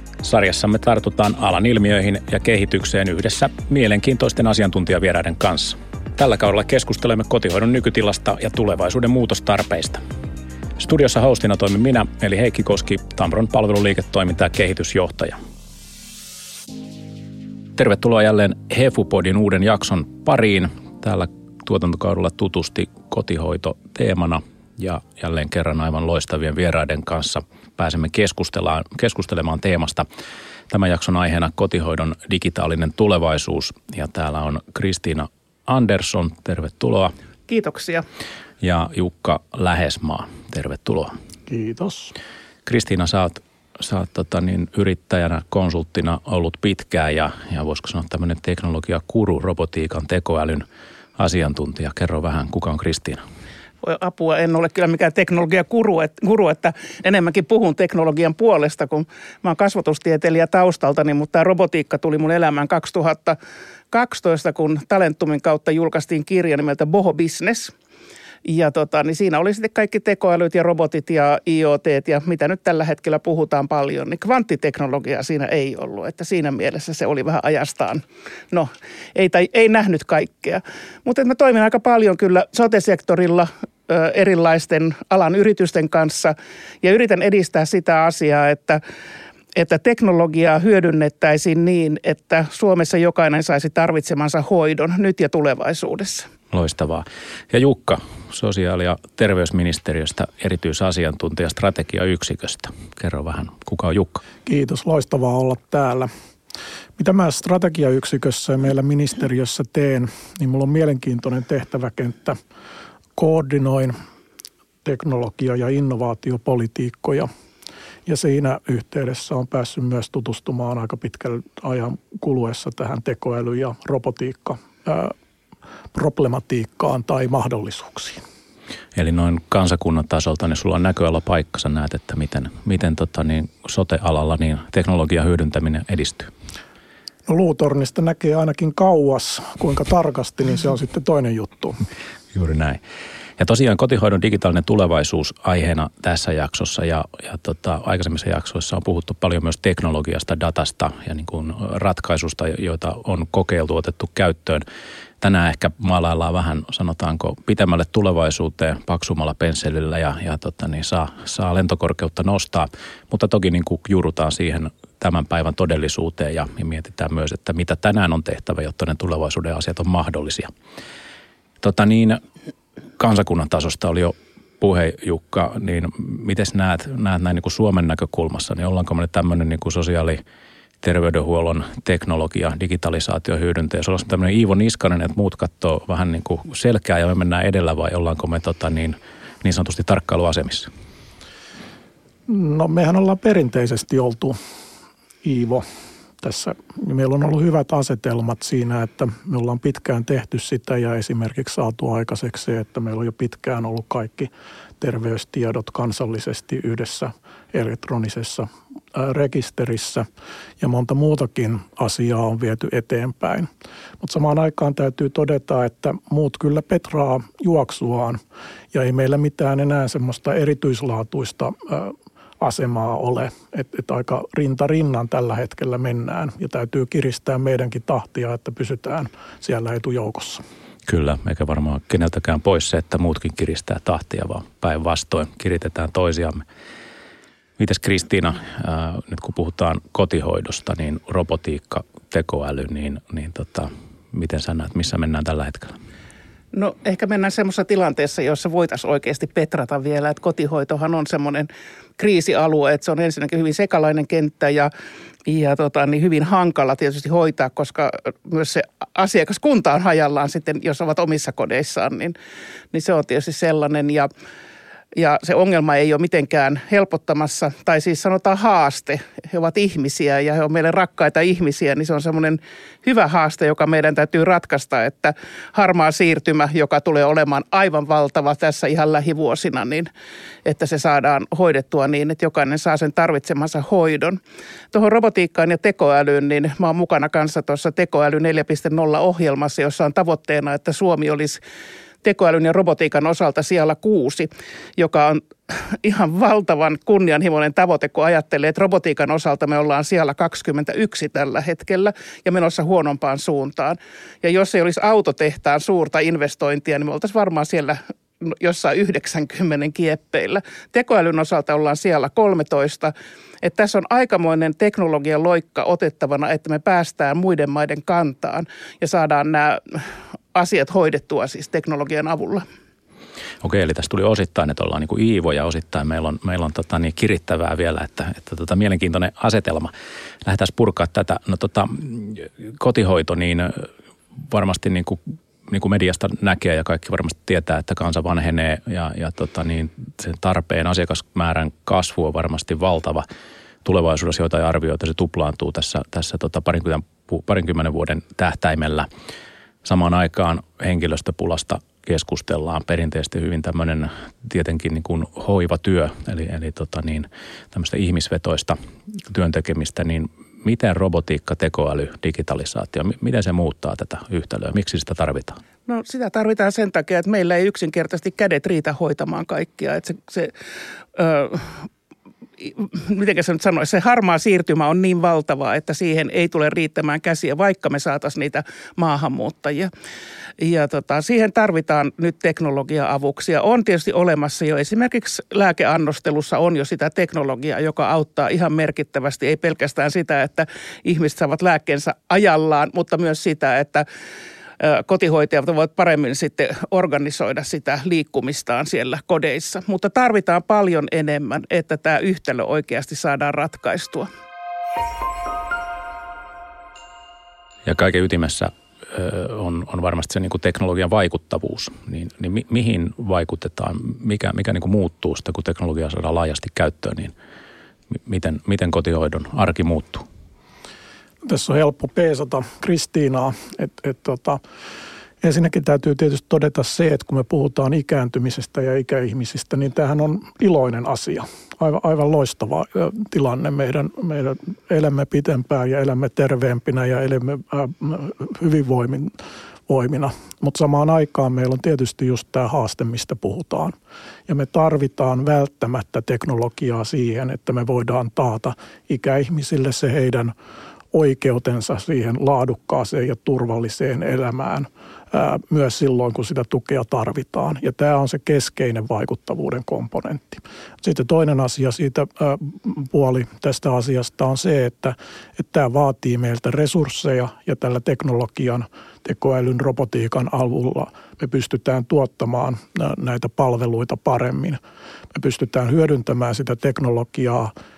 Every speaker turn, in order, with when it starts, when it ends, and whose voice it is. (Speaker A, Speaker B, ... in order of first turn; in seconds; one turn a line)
Speaker A: 0.2-10.0
Speaker A: 10.8-15.4
Speaker A: 17.8-30.1
Speaker A: 30.7-37.1
Speaker B: 37.5-38.0
Speaker A: 38.6-41.1
Speaker C: 41.5-42.1
Speaker A: 42.6-50.6
Speaker A: 51.2-53.2
Speaker B: 53.8-63.4
Speaker B: 63.9-67.7
Speaker B: 68.4-88.8
Speaker B: 89.5-96.3
Speaker A: 96.5-104.2
Speaker C: 104.5-106.1
Speaker C: 107.0-112.4
Speaker C: 113.2-113.9
Speaker C: 114.8-117.3
Speaker C: 118.0-125.1
Speaker C: 125.9-128.2
Speaker A: 128.9-136.3
Speaker C: 137.3-141.8
Speaker A: 142.3-142.8
Speaker A: 143.4-154.6
Speaker A: 155.2-170.5
Speaker A: 171.6-172.2
Speaker A: 173.0-180.2
Speaker A: 180.8-190.7
Speaker C: 192.3-194.4
Speaker C: 195.2-195.6
Speaker C: 196.2-210.1
Speaker C: 210.6-213.5
Speaker C: 214.0-218.2
Speaker C: 218.7-230.4
Speaker A: 230.8-236.4
Speaker A: 237.6-245.8
Speaker B: 246.5-254.7
Speaker B: 255.2-262.1
Speaker B: 262.7-264.1
Speaker B: 264.9-279.9
Speaker B: 280.4-284.2
Speaker B: 284.7-291.4
Speaker B: 292.0-322.4
Speaker A: 323.4-329.7
Speaker A: 330.2-333.7
Speaker A: 334.2-343.0
Speaker A: 343.6-348.9
Speaker A: 349.6-365.4
Speaker B: 365.7-370.3
Speaker B: 370.9-371.7
Speaker B: 372.4-379.7
Speaker B: 380.4-393.8
Speaker B: 394.6-404.1
Speaker A: 407.6-417.1
Speaker A: 417.9-420.1
Speaker C: 421.2-424.4
Speaker C: 425.2-439.1
Speaker C: 439.7-443.7
Speaker C: 444.3-450.3
Speaker C: 450.9-474.6
Speaker C: 475.1-477.5